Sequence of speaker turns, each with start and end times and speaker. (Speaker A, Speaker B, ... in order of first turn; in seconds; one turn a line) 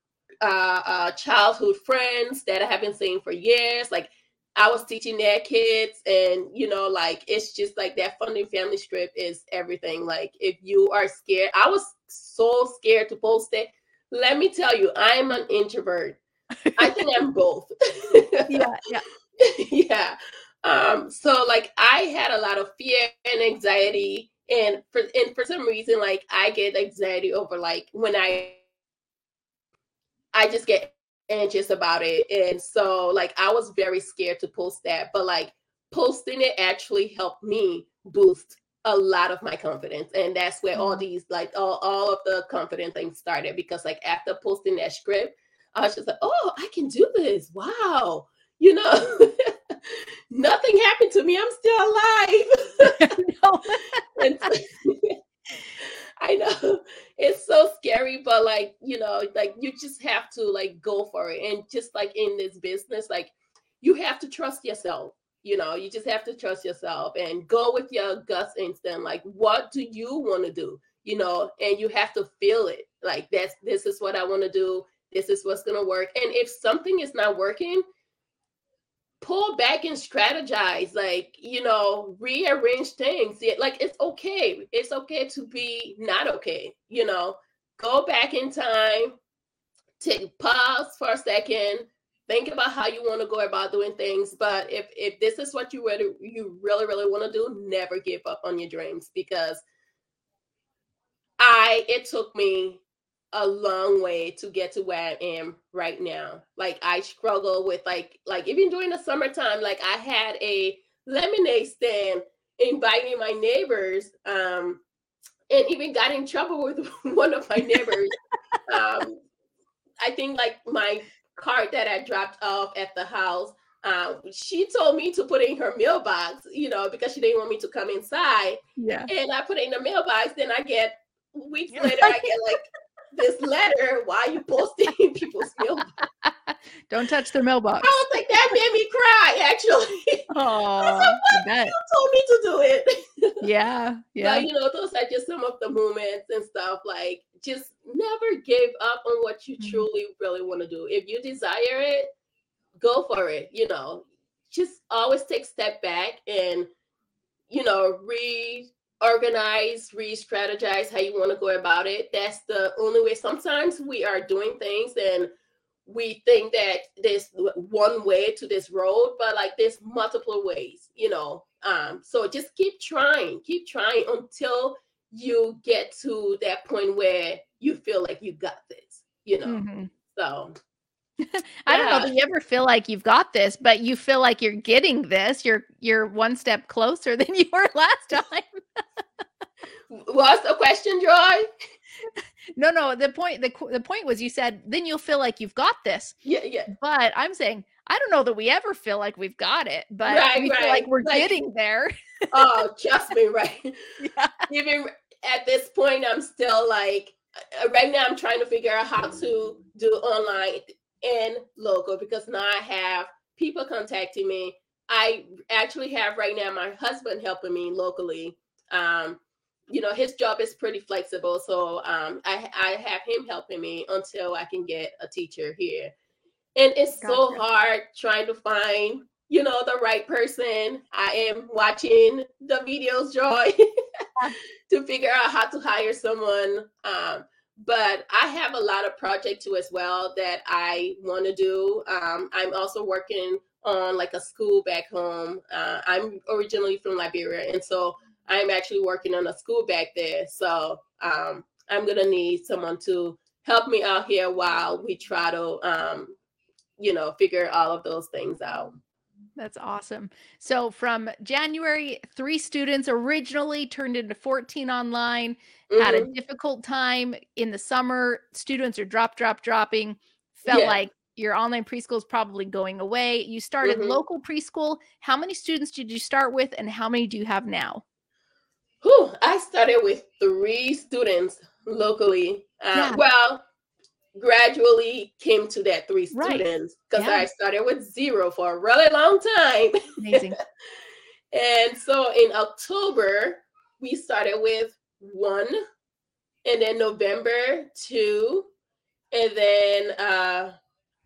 Speaker A: 0.4-16.2
Speaker B: 16.6-16.9
Speaker A: 16.8-18.6
Speaker B: 18.5-19.0
Speaker A: 19.4-28.6
Speaker A: 30.3-53.1
Speaker B: 40.7-41.0
Speaker B: 52.8-54.5
Speaker A: 54.2-55.1
Speaker A: 56.2-77.8
Speaker A: 79.2-89.2
Speaker A: 90.0-99.6
Speaker A: 101.4-114.8
Speaker A: 115.5-118.1
Speaker B: 117.6-117.9
Speaker A: 118.7-119.2
Speaker A: 120.0-135.9
Speaker B: 128.8-129.1
Speaker B: 131.8-132.2
Speaker B: 136.2-137.9
Speaker A: 137.8-140.2
Speaker B: 140.3-141.7
Speaker A: 140.8-143.4
Speaker B: 143.4-144.5
Speaker A: 144.2-152.1
Speaker B: 149.6-149.9
Speaker A: 152.8-156.7
Speaker A: 157.5-165.3
Speaker A: 165.8-180.6
Speaker B: 179.4-179.9
Speaker B: 181.2-188.5
Speaker A: 181.7-182.1
Speaker A: 189.9-191.5
Speaker B: 192.6-196.2
Speaker A: 196.2-196.7
Speaker B: 196.7-202.5
Speaker A: 200.0-201.4
Speaker A: 202.3-203.8
Speaker B: 204.0-204.5
Speaker A: 204.5-225.9
Speaker A: 226.6-233.6
Speaker B: 227.0-227.4
Speaker A: 234.7-256.2
Speaker A: 256.8-258.8
Speaker B: 259.4-277.8
Speaker A: 265.7-266.1
Speaker A: 270.5-270.8
Speaker A: 273.6-274.0
Speaker A: 278.8-283.4
Speaker B: 282.7-283.0
Speaker A: 284.1-290.3
Speaker B: 286.1-287.3
Speaker B: 290.0-290.4
Speaker A: 291.3-295.6
Speaker A: 296.4-298.5
Speaker A: 299.1-300.5